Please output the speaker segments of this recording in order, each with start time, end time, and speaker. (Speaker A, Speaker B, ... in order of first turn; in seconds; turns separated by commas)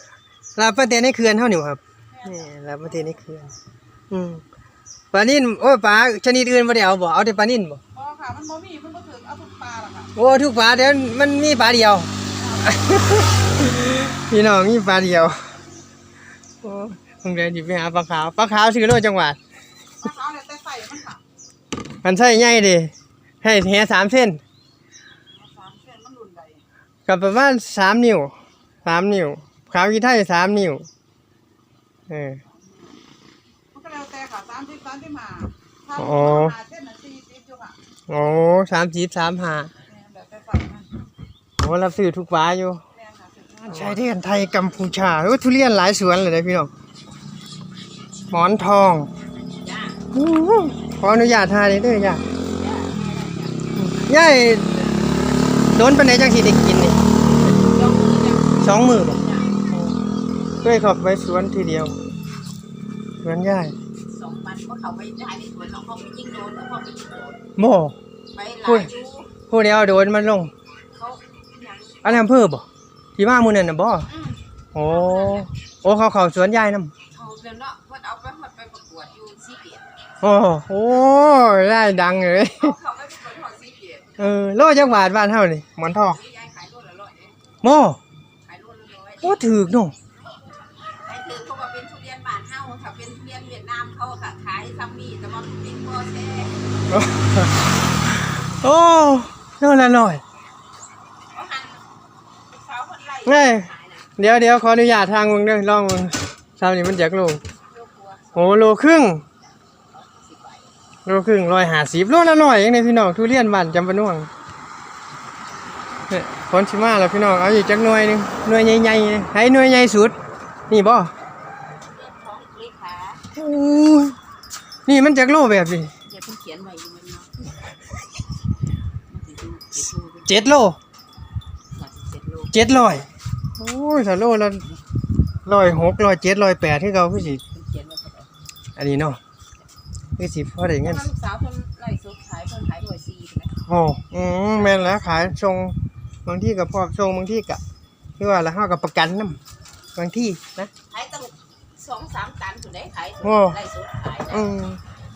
Speaker A: 0.6-3.5, Speaker A: 4.1-4.4, Speaker A: 5.1-7.8, Speaker B: 8.0-10.1, Speaker A: 10.2-12.1, Speaker A: 12.6-15.4, Speaker A: 16.6-19.4, Speaker B: 20.2-21.1, Speaker A: 22.0-22.9, Speaker A: 23.4-24.4, Speaker A: 27.1-30.9, Speaker A: 32.1-32.4, Speaker B: 33.7-37.8, Speaker A: 35.9-36.6, Speaker A: 38.1-39.7, Speaker B: 39.9-40.9, Speaker A: 41.6-42.8, Speaker B: 43.0-43.6, Speaker A: 43.6-46.7, Speaker A: 48.3-49.1, Speaker C: 49.6-50.0, Speaker A: 50.1-52.2, Speaker C: 52.5-53.6, Speaker A: 53.8-55.0, Speaker A: 55.7-57.1, Speaker C: 57.5-59.6, Speaker A: 58.6-60.0, Speaker A: 60.6-62.0, Speaker A: 63.2-63.8, Speaker C: 64.1-67.3, Speaker A: 67.6-68.0, Speaker C: 68.3-69.3, Speaker A: 69.5-70.5, Speaker C: 70.9-72.2, Speaker A: 72.0-74.1, Speaker C: 74.1-75.5, Speaker A: 74.8-76.9, Speaker C: 77.1-79.8, Speaker A: 80.2-82.8, Speaker C: 82.6-84.2, Speaker A: 84.2-86.2, Speaker C: 86.0-87.4, Speaker A: 87.6-88.0, Speaker C: 88.5-89.4, Speaker A: 89.2-89.9, Speaker C: 91.0-96.6, Speaker A: 96.9-97.5, Speaker A: 98.0-100.2, Speaker C: 101.3-101.9, Speaker C: 102.5-104.1, Speaker A: 103.2-107.4, Speaker C: 107.7-108.6, Speaker A: 108.3-109.2, Speaker C: 109.9-110.7, Speaker A: 111.1-114.3, Speaker A: 116.1-120.2, Speaker A: 120.7-121.1, Speaker C: 121.9-123.2, Speaker A: 123.3-124.2, Speaker A: 124.9-125.9, Speaker C: 126.1-127.5, Speaker C: 129.1-130.5, Speaker A: 130.3-130.8, Speaker C: 131.7-132.5, Speaker A: 132.5-133.1, Speaker A: 133.6-134.7, Speaker A: 135.5-137.4, Speaker C: 137.5-138.3, Speaker A: 138.8-139.2, Speaker A: 140.2-141.1, Speaker C: 140.8-143.6, Speaker A: 143.7-147.6, Speaker A: 148.2-149.4, Speaker A: 150.0-150.7, Speaker C: 150.9-154.5, Speaker A: 153.2-153.6, Speaker A: 154.3-154.8